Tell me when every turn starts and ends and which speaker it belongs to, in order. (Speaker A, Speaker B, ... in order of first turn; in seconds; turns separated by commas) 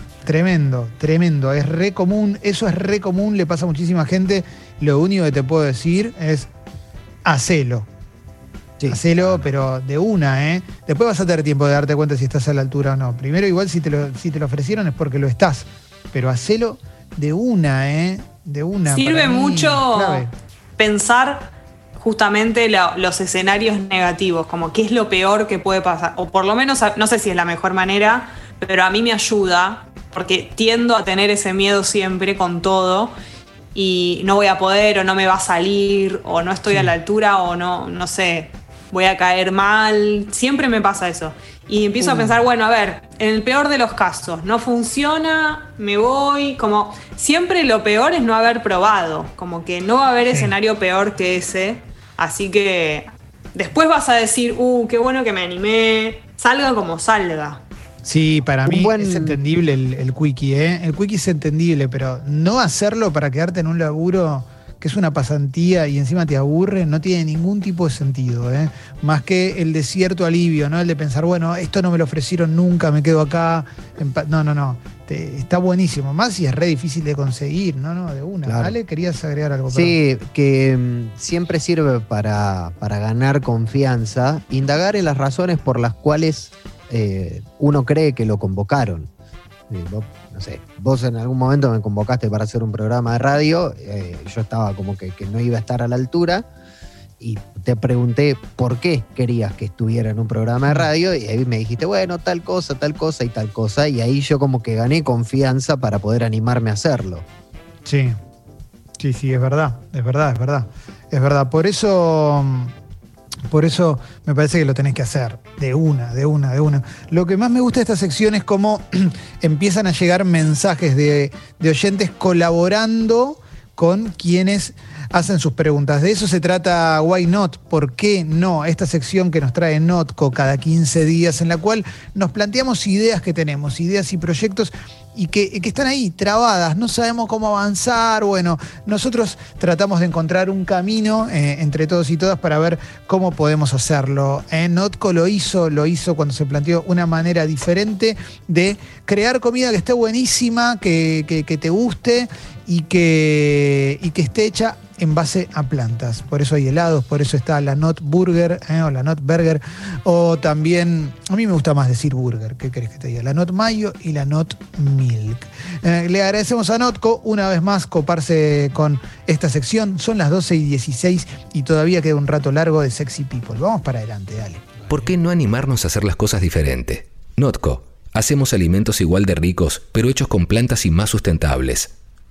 Speaker A: 0.2-6.5, Speaker A: 7.2-7.9, Speaker B: 8.8-9.4, Speaker A: 8.9-20.3, Speaker C: 18.9-33.1, Speaker C: 33.7-57.6, Speaker A: 36.7-36.9, Speaker A: 42.0-42.5, Speaker A: 58.0-80.0, Speaker B: 58.6-59.4, Speaker B: 78.5-78.7, Speaker B: 79.7-89.1, Speaker B: 89.7-96.5, Speaker B: 97.2-107.2, Speaker A: 107.8-108.2, Speaker A: 109.0-112.7, Speaker A: 113.5-174.6, Speaker D: 174.9-181.9